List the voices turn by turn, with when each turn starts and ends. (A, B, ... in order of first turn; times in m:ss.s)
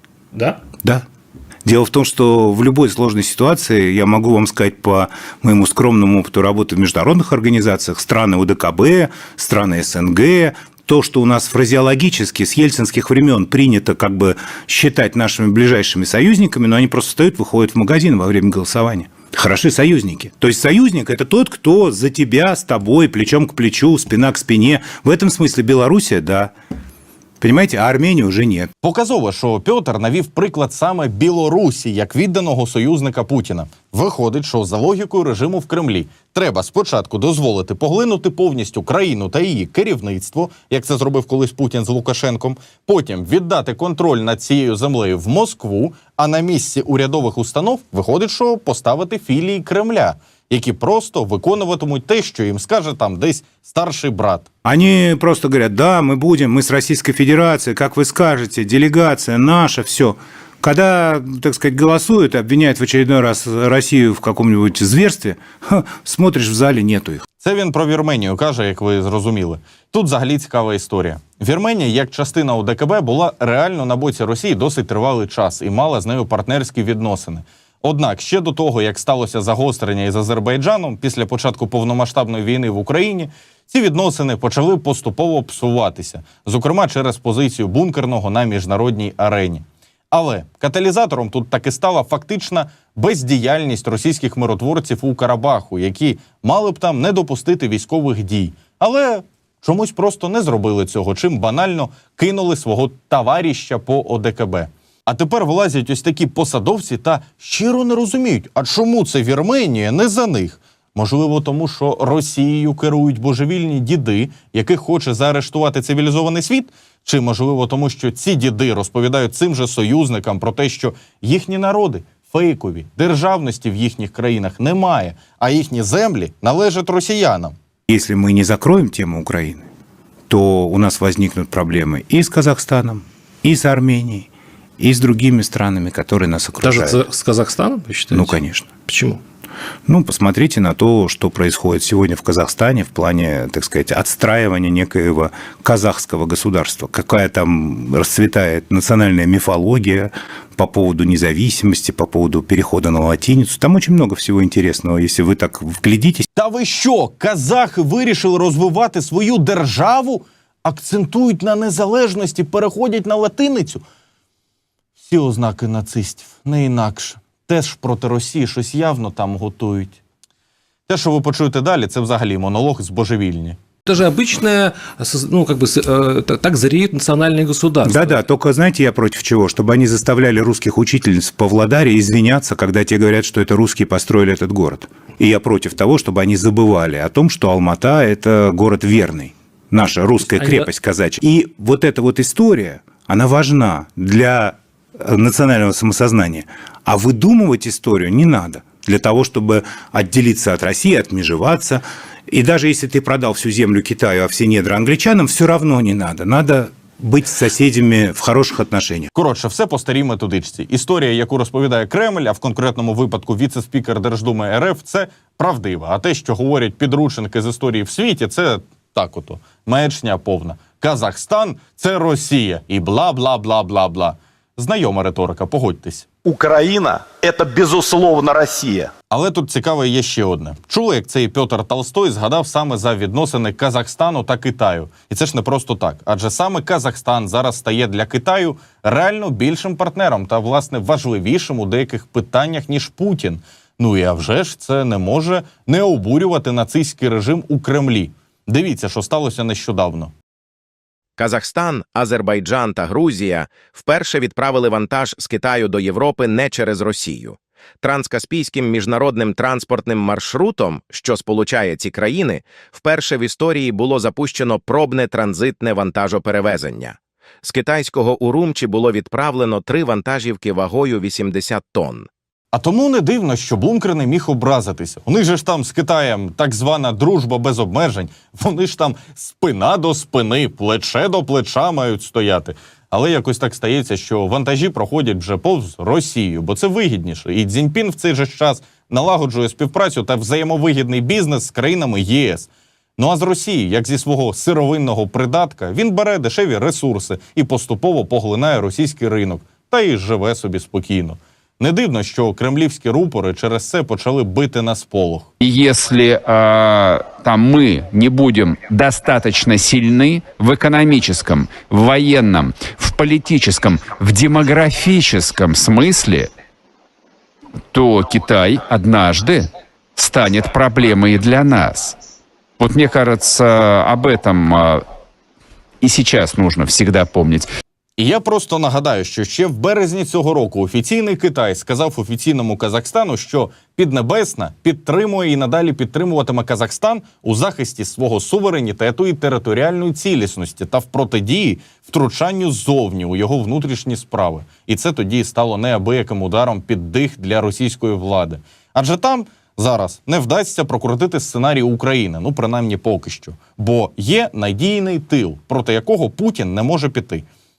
0:01.6-0:26.5 A
0:27.4-0:28.7 A
0:28.8-0:54.5 B
0:54.6-1:07.2 A
1:07.4-2:07.5 B
2:07.9-2:09.6 A
2:10.3-2:17.0 A
2:16.6-2:19.2 C
2:18.1-2:18.7 A
2:19.9-2:36.3 A
2:36.4-2:43.8 B
2:45.0-2:50.0 B
2:50.9-2:53.6 B
2:53.8-2:58.1 C
2:57.8-3:29.1 A
3:10.4-3:10.6 C
3:29.1-3:46.1 B
3:46.2-3:48.9 D
3:49.1-4:10.1 B
4:11.2-4:32.1 E
4:32.5-5:05.3 B
5:05.4-5:16.3 F
5:17.7-5:19.4 F
5:20.0-5:21.9 F
5:22.6-5:24.8 F
5:25.8-5:27.5 F
5:28.0-5:57.2 B